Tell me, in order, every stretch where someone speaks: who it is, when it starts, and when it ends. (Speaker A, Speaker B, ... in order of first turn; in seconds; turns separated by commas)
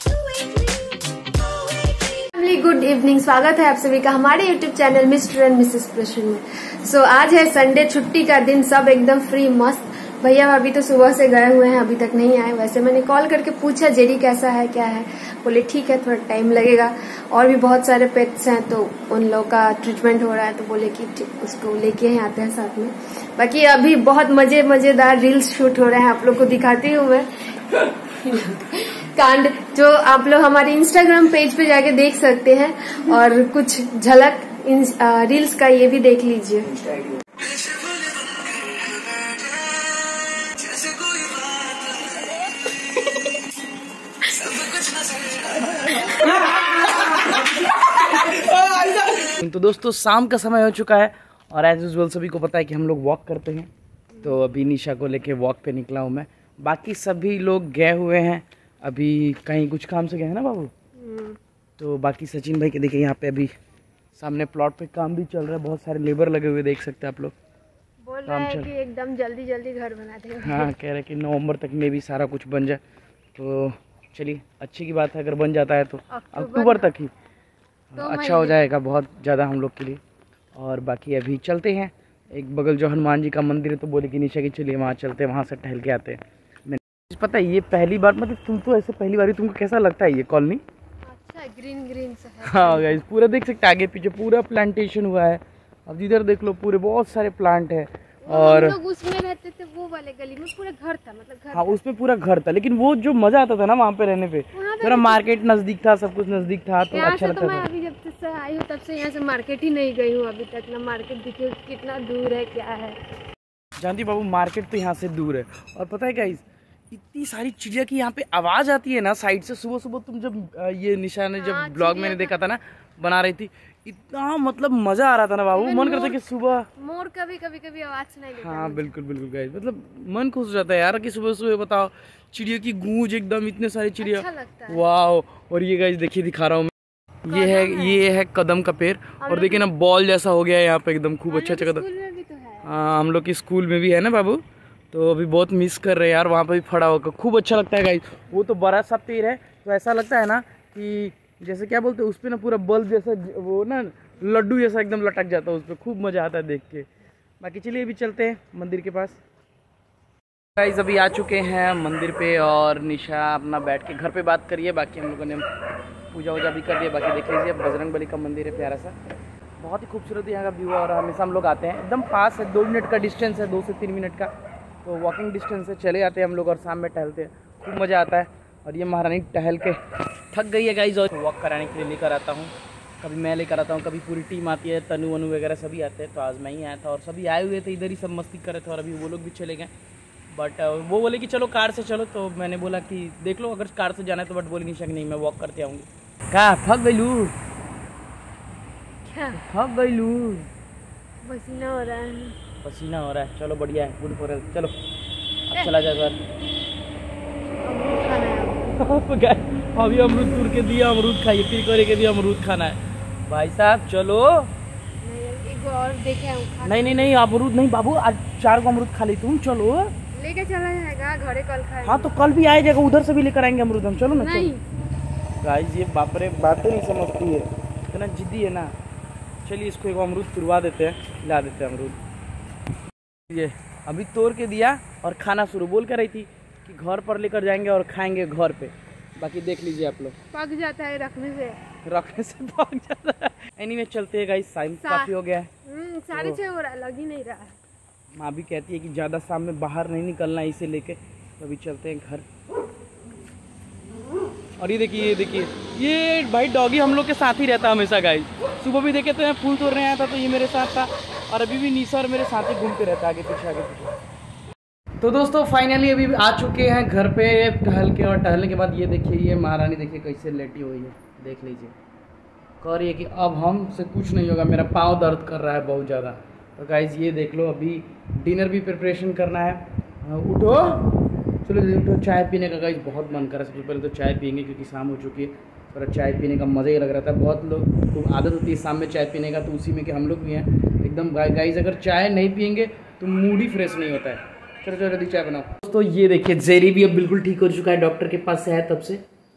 Speaker A: 0.4-0.6, Speaker A: 2.1-36.8, Speaker B: 49.2-53.7, Speaker B: 54.2-60.7, Speaker A: 61.0-61.4, Speaker B: 61.8-63.5, Speaker B: 64.2-67.3, Speaker A: 68.0-70.7, Speaker B: 68.3-68.7, Speaker B: 70.4-72.8, Speaker B: 73.4-77.1, Speaker A: 76.1-76.9, Speaker B: 77.9-80.0, Speaker A: 78.0-78.5, Speaker B: 80.6-90.6, Speaker A: 91.1-93.0, Speaker B: 92.5-98.8, Speaker A: 98.3-101.8, Speaker B: 101.5-107.7, Speaker A: 104.5-105.2, Speaker A: 106.9-113.0, Speaker B: 113.8-126.7, Speaker A: 121.4-122.3, Speaker A: 125.5-126.2, Speaker A: 126.8-128.9, Speaker B: 128.4-136.7, Speaker A: 134.0-134.8, Speaker B: 137.2-141.8, Speaker A: 137.3-138.0, Speaker A: 139.2-139.6, Speaker A: 141.3-142.7, Speaker B: 142.6-156.9, Speaker B: 157.4-159.2, Speaker B: 160.6-165.5, Speaker B: 166.1-168.9, Speaker B: 169.6-174.3, Speaker B: 174.8-179.8, Speaker B: 180.3-189.7, Speaker B: 190.3-197.3, Speaker A: 199.1-199.4, Speaker B: 199.4-200.5, Speaker A: 201.2-202.3, Speaker B: 202.6-204.7, Speaker B: 205.5-206.2, Speaker A: 207.6-208.8, Speaker B: 208.7-214.5, Speaker A: 215.0-217.1, Speaker B: 216.6-219.9, Speaker A: 220.1-222.1, Speaker B: 221.8-224.5, Speaker A: 224.1-224.6, Speaker B: 225.4-228.7, Speaker B: 229.4-232.0, Speaker B: 233.3-240.2, Speaker A: 240.3-241.6, Speaker B: 241.8-245.5, Speaker A: 244.8-245.1, Speaker A: 245.7-247.6, Speaker B: 246.1-246.4, Speaker B: 248.2-252.3, Speaker B: 254.6-263.9, Speaker B: 265.0-271.8, Speaker B: 272.6-280.9, Speaker B: 281.4-299.0